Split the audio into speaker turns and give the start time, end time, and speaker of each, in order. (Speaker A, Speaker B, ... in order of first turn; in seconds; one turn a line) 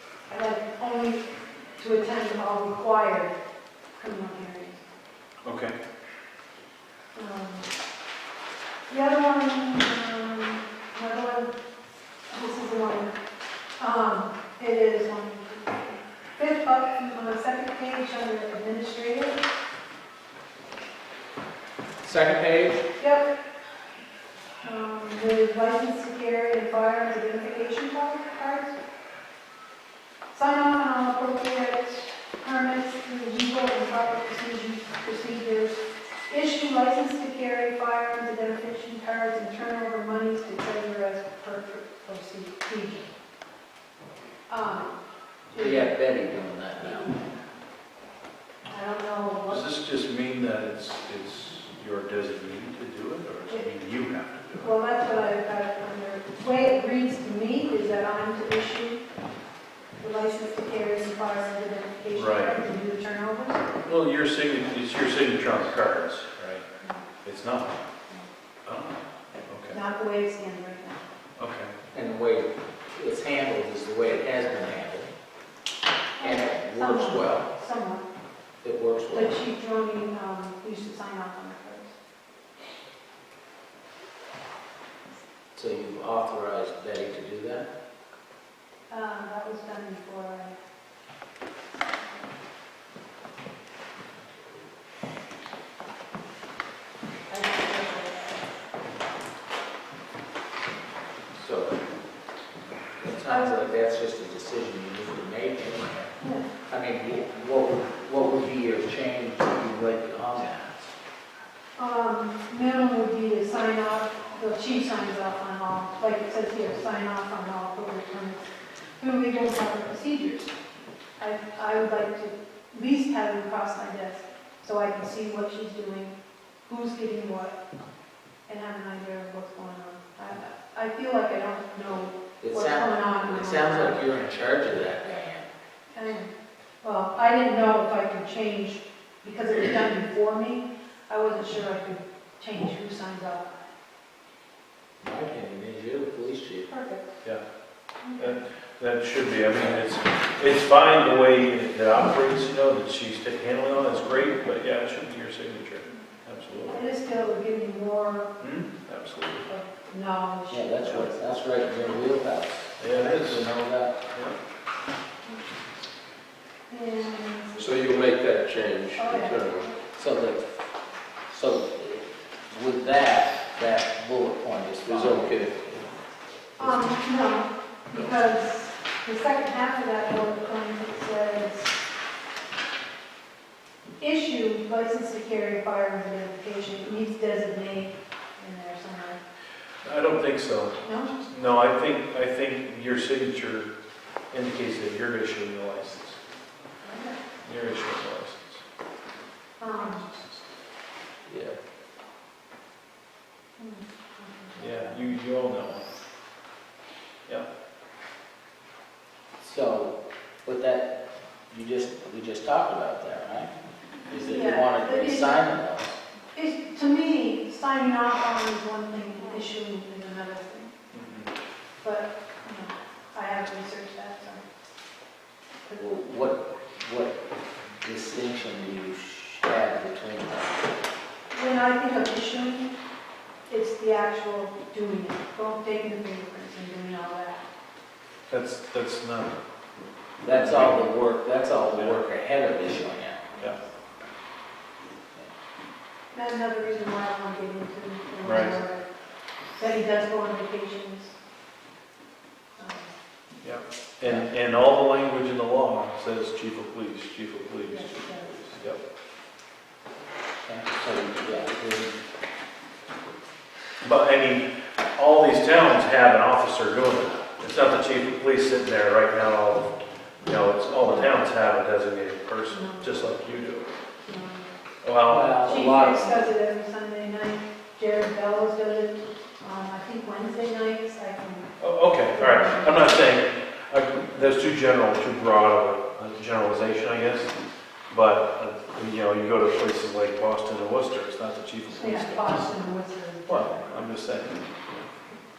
Speaker A: 0.3-1.2
Speaker A: 1.8-3.4
Speaker A: 4.0-4.8
Speaker B: 5.4-5.8
Speaker A: 7.1-7.7
Speaker A: 8.9-11.5
Speaker A: 12.3-13.2
Speaker A: 13.8-19.4
Speaker C: 22.0-22.8
Speaker A: 23.0-23.3
Speaker A: 24.6-28.8
Speaker A: 30.3-43.1
Speaker A: 44.5-45.0
Speaker A: 45.5-45.9
Speaker C: 45.6-47.2
Speaker A: 46.8-47.3
Speaker A: 48.7-49.6
Speaker B: 49.5-54.8
Speaker A: 54.6-59.0
Speaker A: 60.0-63.7
Speaker B: 62.1-62.6
Speaker B: 63.9-66.7
Speaker B: 67.2-67.8
Speaker B: 68.7-69.8
Speaker A: 69.7-71.0
Speaker B: 71.4-71.7
Speaker C: 71.9-75.1
Speaker A: 76.2-78.0
Speaker C: 76.2-77.5
Speaker C: 78.6-79.4
Speaker A: 79.1-82.0
Speaker C: 85.5-87.7
Speaker A: 88.9-90.5
Speaker A: 91.8-92.3
Speaker A: 97.3-98.5
Speaker C: 101.4-101.8
Speaker C: 103.0-106.1
Speaker A: 103.3-103.6
Speaker A: 106.2-106.5
Speaker C: 106.7-110.9
Speaker A: 111.8-120.5
Speaker A: 121.2-127.6
Speaker A: 128.5-134.1
Speaker C: 132.4-135.5
Speaker A: 135.9-143.7
Speaker C: 145.0-146.7
Speaker A: 146.7-147.1
Speaker A: 148.0-148.4
Speaker B: 148.2-156.8
Speaker A: 156.7-158.3
Speaker B: 158.4-159.5
Speaker A: 159.5-161.1
Speaker C: 160.5-163.9
Speaker B: 162.8-163.5
Speaker A: 166.7-167.7
Speaker D: 167.6-169.7
Speaker A: 168.9-169.8
Speaker C: 170.0-170.5
Speaker C: 171.3-175.9
Speaker D: 174.8-175.6
Speaker A: 176.6-181.9
Speaker A: 184.0-189.2
Speaker B: 189.8-193.7
Speaker A: 190.8-191.1
Speaker B: 194.3-196.2
Speaker A: 196.8-197.2
Speaker B: 197.4-198.6
Speaker A: 199.6-200.1
Speaker B: 199.7-200.5
Speaker D: 201.3-201.6
Speaker A: 203.6-205.1
Speaker B: 204.6-205.9
Speaker C: 209.4-213.5
Speaker C: 214.1-216.0
Speaker A: 214.3-215.4
Speaker A: 216.3-220.7
Speaker B: 220.9-221.3
Speaker A: 221.8-224.4
Speaker A: 225.7-226.2
Speaker C: 225.8-227.2
Speaker C: 227.8-230.6
Speaker A: 231.3-232.7
Speaker A: 233.5-237.5
Speaker B: 238.3-239.4
Speaker C: 240.2-243.3
Speaker B: 240.3-240.8
Speaker A: 243.3-243.7
Speaker A: 246.1-248.8
Speaker B: 248.2-248.6
Speaker A: 249.5-251.1
Speaker A: 252.6-252.9
Speaker B: 253.4-258.8
Speaker C: 254.0-254.3
Speaker A: 257.7-258.4
Speaker C: 260.5-262.0
Speaker B: 263.8-273.7
Speaker A: 270.8-271.2
Speaker A: 272.5-273.3
Speaker A: 274.0-274.5
Speaker B: 274.8-275.3
Speaker C: 275.0-276.3
Speaker A: 275.4-281.5
Speaker B: 281.6-287.3
Speaker A: 282.1-283.1
Speaker B: 287.9-292.6
Speaker A: 291.7-293.7
Speaker B: 293.3-294.9